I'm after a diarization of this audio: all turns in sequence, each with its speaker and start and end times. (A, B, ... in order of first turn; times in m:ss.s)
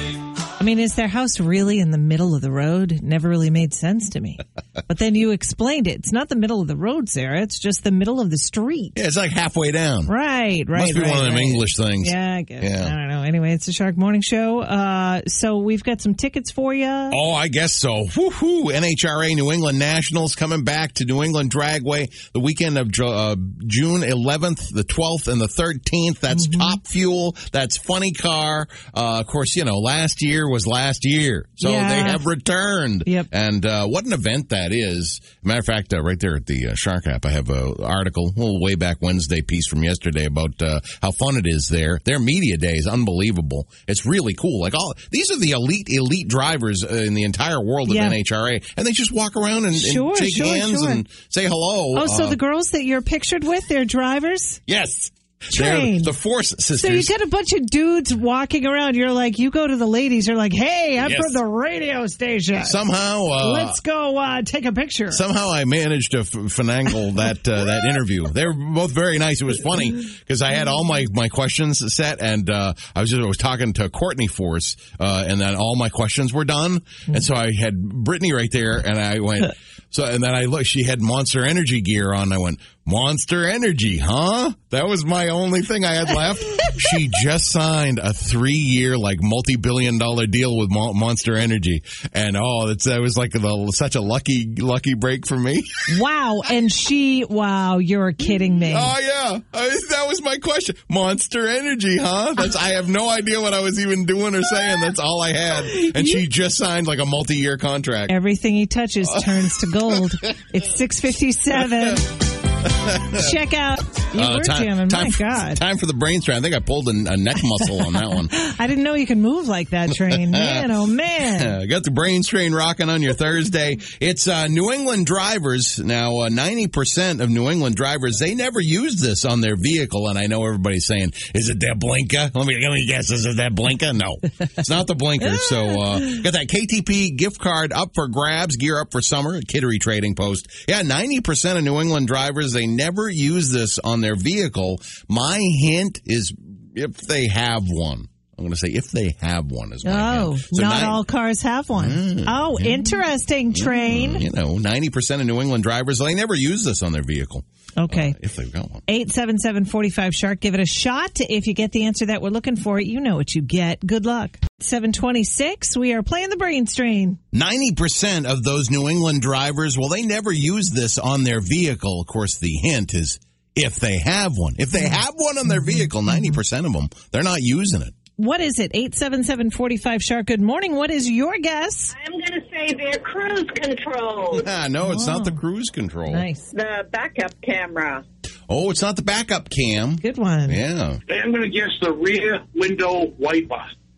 0:00.6-0:09.0 A
0:09.0-0:10.1 B
0:10.1-0:17.2 A
0:10.7-0:12.9 B
0:17.1-0:52.4 B
0:26.3-0:26.8 A
0:31.6-0:32.2 A
0:47.9-0:48.2 A
0:49.8-0:51.0 A
0:52.0-0:54.6 A
0:54.7-0:57.1 B
0:55.5-0:56.1 A
0:56.8-1:02.8 A
1:01.0-1:01.4 B
1:02.6-1:03.8 B
1:03.4-1:05.2 A
1:05.1-1:35.7 B
1:35.9-1:38.9 A
1:38.3-1:48.2 B
1:45.6-1:46.2 A
1:48.1-1:52.1 A
1:51.7-1:52.0 B
1:52.7-1:53.3 B
1:53.0-1:55.6 A
1:54.1-1:58.3 B
1:58.1-2:01.6 A
1:59.9-2:31.0 B
2:29.8-2:34.2 A
2:31.8-2:33.0 B
2:33.5-2:38.8 B
2:37.8-2:38.2 A
2:38.9-2:47.2 A
2:47.3-2:57.9 B
2:55.6-2:56.4 A
2:58.2-3:02.0 A
3:02.0-3:04.4 C
3:04.3-3:06.2 B
3:04.8-3:05.4 A
3:06.1-3:06.5 A
3:06.5-3:08.0 C
3:08.5-3:11.0 B
3:10.0-3:10.6 A
3:11.1-3:13.7 D